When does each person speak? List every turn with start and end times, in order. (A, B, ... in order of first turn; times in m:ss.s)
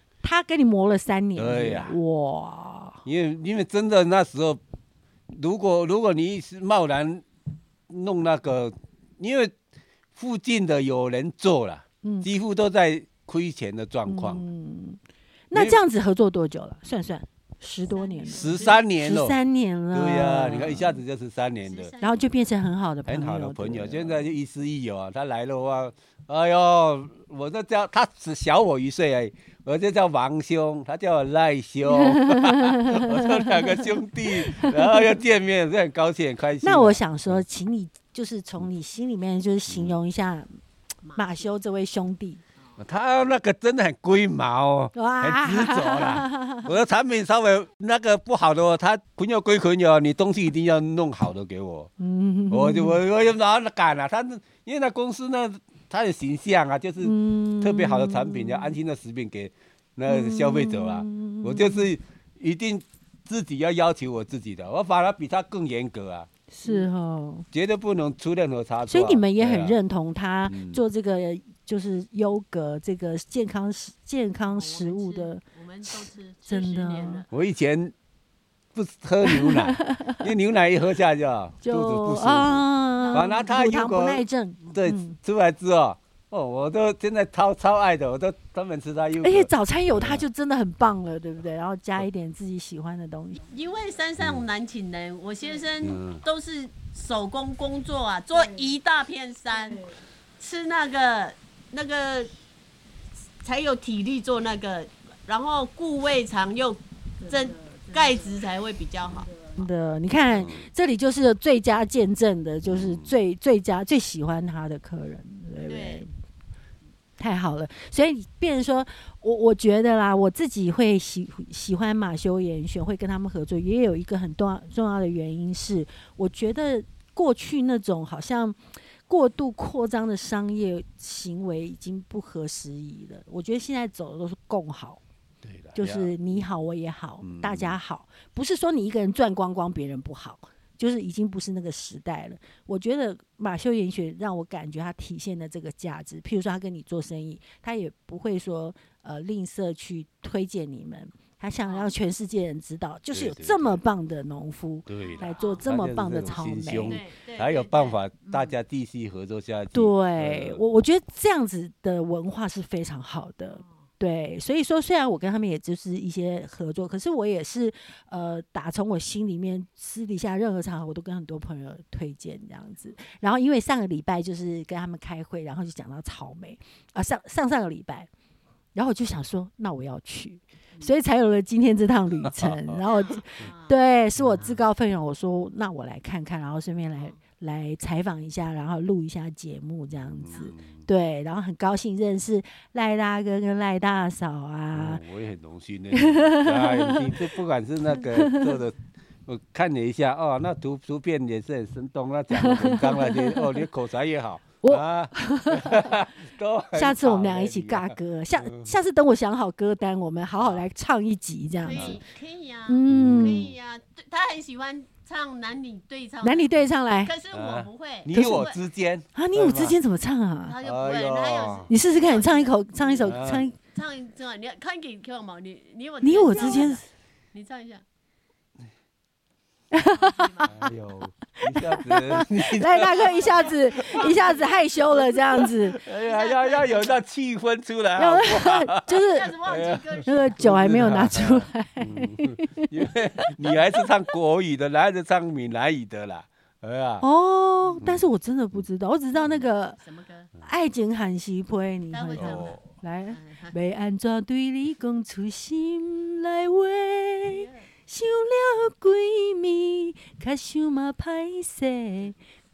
0:00.2-0:03.0 A
0:01.4-0:02.0 B
0:03.0-0:04.6 B
0:05.3-0:07.2 B
0:07.9-0:09.5 B
0:10.1-0:14.4 B
0:12.0-0:12.3 A
0:14.0-0:15.0 A
0:15.5-0:21.0 A
0:15.5-0:15.8 B
0:17.8-0:18.8 C
0:18.3-0:19.4 B
0:19.9-0:21.9 B
0:21.6-0:22.5 C
0:22.0-0:24.3 A
0:23.0-0:37.3 B
0:31.9-0:35.1 A
0:36.6-0:40.6 A
0:39.7-0:40.0 B
0:41.0-0:41.5 C
0:41.2-0:42.4 A
0:42.8-0:51.9 B
0:44.9-0:46.7 A
0:52.0-0:53.0 A
0:52.5-1:06.3 B
0:57.0-0:58.8 A
1:00.0-1:01.9 A
1:06.5-1:07.5 A
1:07.5-1:09.8 B
1:08.9-1:17.2 A
1:10.5-1:10.8 B
1:14.5-1:17.3 C
1:17.3-1:17.9 B
1:18.7-1:30.2 B
1:19.2-1:20.2 A
1:21.6-1:25.2 A
1:23.0-1:23.3 C
1:29.2-1:33.4 A
1:33.5-1:42.3 C
1:35.8-1:36.2 B
1:43.4-1:49.4 C
1:49.6-1:56.1 A
1:50.3-1:50.6 B
1:52.7-1:53.1 B
1:55.7-1:56.0 C
1:57.2-2:15.0 A
2:15.4-2:16.4 B
2:15.8-2:37.0 A
2:17.2-2:17.8 B
2:31.6-2:31.9 C
2:33.1-2:33.8 B
2:34.9-2:40.6 B
2:35.0-2:35.6 C
2:36.8-2:38.5 C
2:39.7-2:58.1 A
2:58.7-3:15.0 A
3:02.2-3:02.8 B
3:02.8-3:03.8 C
3:04.2-3:04.5 B
3:10.2-3:10.8 B
3:14.7-3:28.7 B
3:15.9-3:17.2 A
3:18.0-3:18.6 A
3:22.3-3:23.6 A
3:24.6-3:26.1 A
3:26.7-3:32.0 A
3:31.6-3:38.6 C
3:31.7-3:32.0 B
3:32.7-3:33.5 A
3:32.9-3:33.5 B
3:36.2-3:37.1 A
3:37.3-3:39.8 B
3:38.1-3:38.4 A
3:39.1-3:40.5 A
3:40.5-3:47.8 C
3:40.6-3:41.7 B
3:41.7-3:43.6 A
3:43.0-3:43.4 B
3:46.0-3:46.8 A
3:49.7-3:50.7 A
3:49.8-3:50.6 C
3:50.5-3:54.1 B
3:51.4-3:55.8 A
3:52.8-3:55.0 C
3:55.4-4:07.0 B
3:55.9-3:57.0 C
3:58.0-3:59.4 A
3:58.9-4:00.6 C
4:00.0-4:03.5 A
4:07.0-4:09.8 A
4:07.8-4:08.0 B
4:09.8-4:10.3 C
4:10.4-4:22.2 A
4:11.9-4:13.5 C
4:12.2-4:12.6 B
4:17.2-4:17.6 C